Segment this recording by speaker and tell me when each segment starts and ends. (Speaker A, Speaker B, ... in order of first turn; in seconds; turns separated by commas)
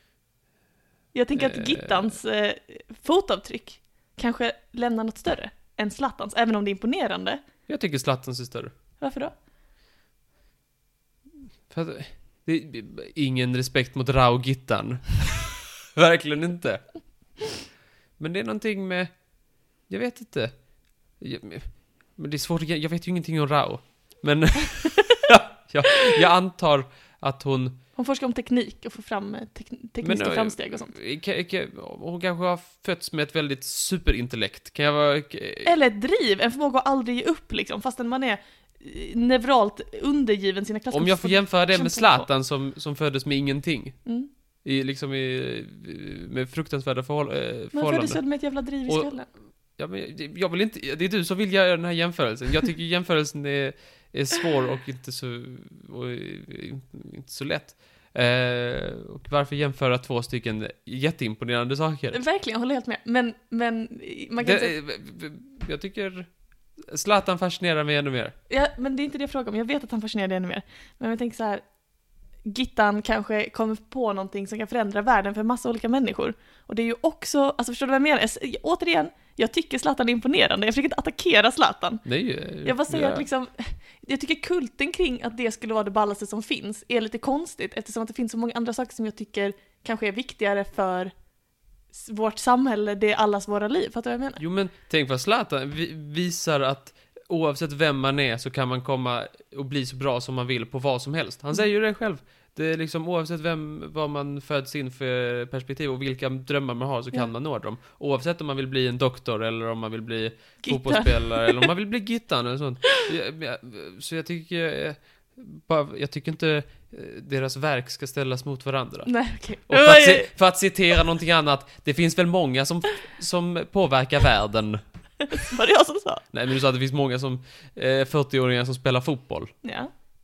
Speaker A: 1.1-7.4, Speaker B: 1.3-2.1, Speaker B: 7.7-8.7, Speaker A: 9.0-9.3, Speaker B: 11.7-16.8, Speaker B: 18.2-19.2, Speaker B: 19.8-27.8, Speaker A: 27.9-30.9, Speaker B: 30.0-35.7, Speaker A: 35.6-42.3, Speaker B: 40.9-44.0, Speaker B: 44.6-48.2, Speaker A: 47.7-49.3, Speaker B: 49.8-62.2, Speaker A: 62.1-64.7, Speaker B: 64.4-68.3, Speaker A: 68.5-71.6, Speaker A: 72.4-82.0, Speaker B: 82.0-83.2, Speaker A: 82.6-91.1, Speaker A: 91.9-94.4, Speaker B: 94.4-124.8, Speaker A: 110.6-111.7, Speaker A: 119.0-120.3, Speaker A: 125.3-126.2, Speaker B: 126.3-129.5, Speaker A: 129.6-129.9